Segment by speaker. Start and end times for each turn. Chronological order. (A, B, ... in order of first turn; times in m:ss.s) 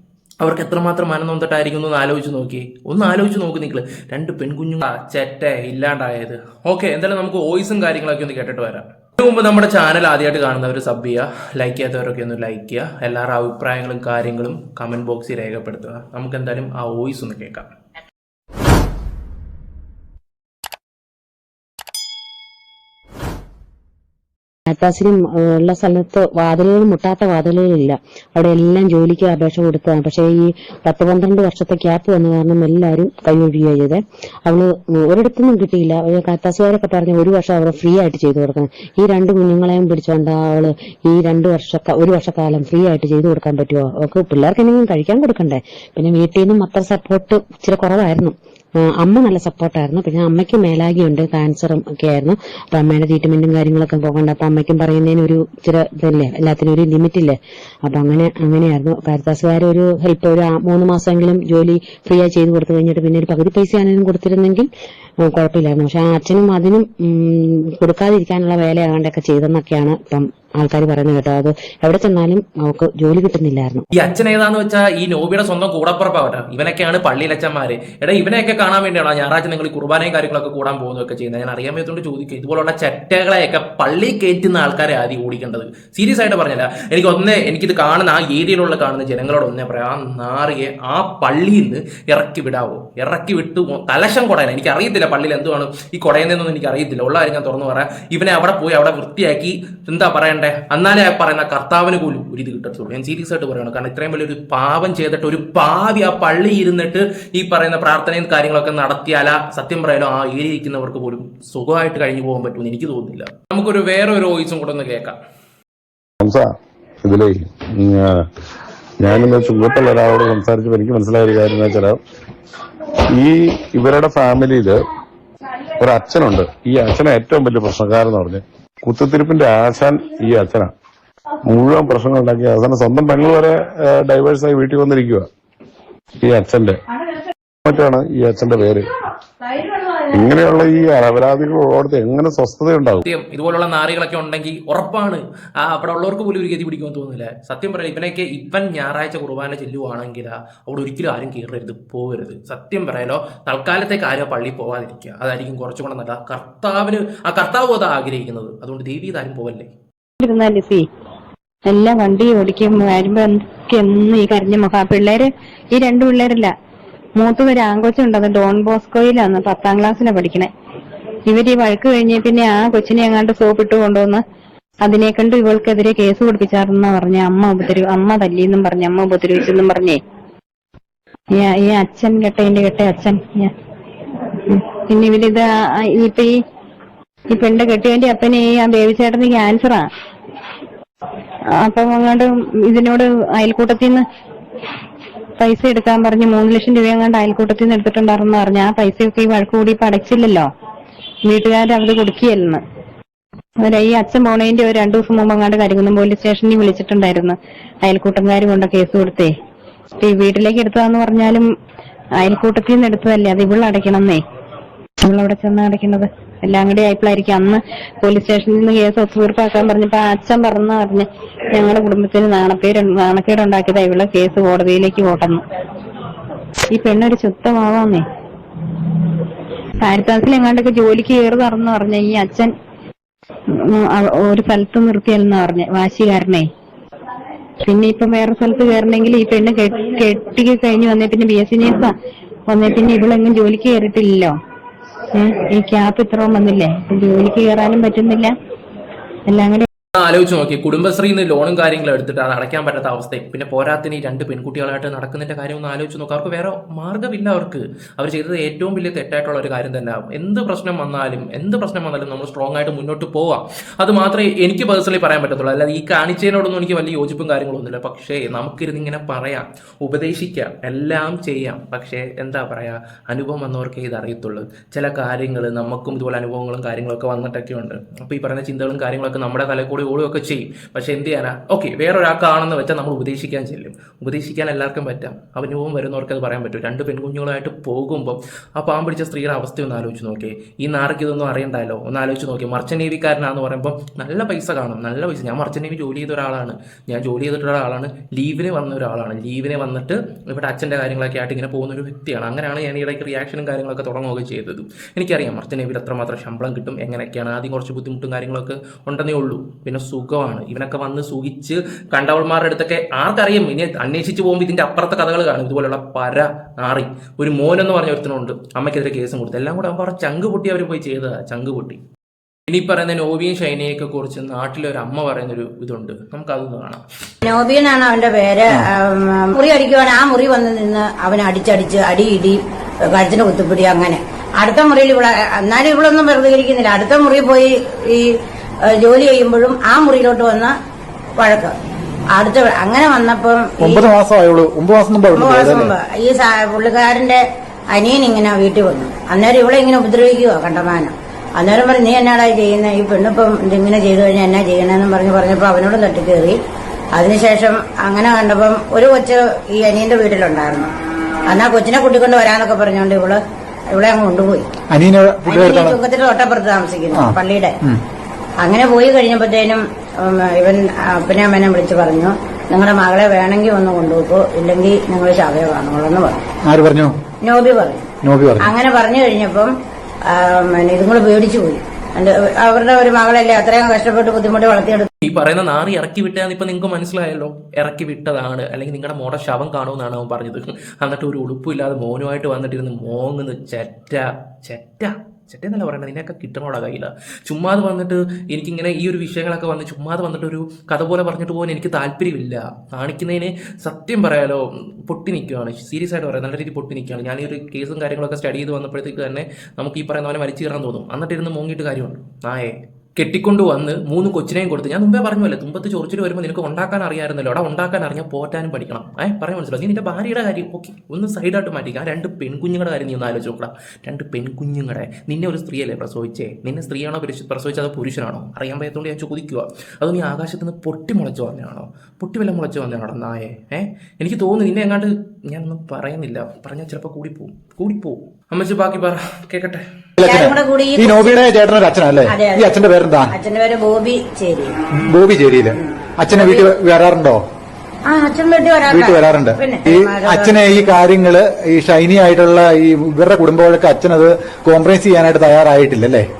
0:00.4-0:17.7 A
0:24.7-1:13.8 B
1:13.9-1:55.2 A
1:56.2-1:56.5 C
1:57.0-1:58.2 C
1:59.0-2:02.0 C
2:03.2-2:04.8 C
2:05.8-2:10.7 C
2:11.5-2:15.3 C
2:16.2-2:16.8 C
2:17.6-2:18.8 C
2:20.1-2:23.0 C
2:23.0-2:39.7 A
2:40.2-2:40.8 D
2:41.7-2:46.5 D
2:47.2-2:50.5 D
2:51.3-2:54.2 D
2:54.8-3:00.0 D
3:01.3-3:03.5 D
3:04.5-3:06.4 D
3:07.3-3:09.9 D
3:11.6-3:14.0 D
3:15.4-3:20.5 D
3:21.2-3:22.6 D
3:23.6-3:29.3 D
3:30.0-3:31.5 D
3:32.2-3:34.2 D
3:35.0-3:45.4 D
3:46.7-3:48.0 D
3:49.8-3:52.5 D
3:53.7-3:56.5 D
3:57.6-4:01.9 D
4:02.5-4:04.3 D
4:05.1-4:08.3 D
4:09.3-4:09.7 D
4:10.0-5:21.8 A
5:22.5-5:26.8 A
5:27.2-5:32.4 E
5:32.9-5:38.1 E
5:38.7-5:40.5 E
5:41.2-5:41.5 E
5:42.1-5:43.8 E
5:43.6-5:45.7 F
5:45.2-5:47.2 E
5:47.7-5:56.4 E
5:56.9-6:00.7 E
6:01.3-6:03.2 E
6:03.7-6:04.5 E
6:04.7-6:05.8 F
6:05.3-6:07.5 E
6:06.9-6:07.8 F
6:08.4-6:16.2 E
6:16.4-6:16.9 F
6:17.2-6:17.8 E
6:18.0-6:18.5 F
6:18.4-6:19.5 E
6:20.1-6:24.9 E
6:25.0-7:19.6 A
7:20.0-7:23.1 F
7:20.0-7:21.2 E
7:22.1-7:24.5 E
7:24.8-7:27.2 F
7:26.1-7:26.5 E
7:27.9-7:30.7 E
7:28.7-7:36.0 F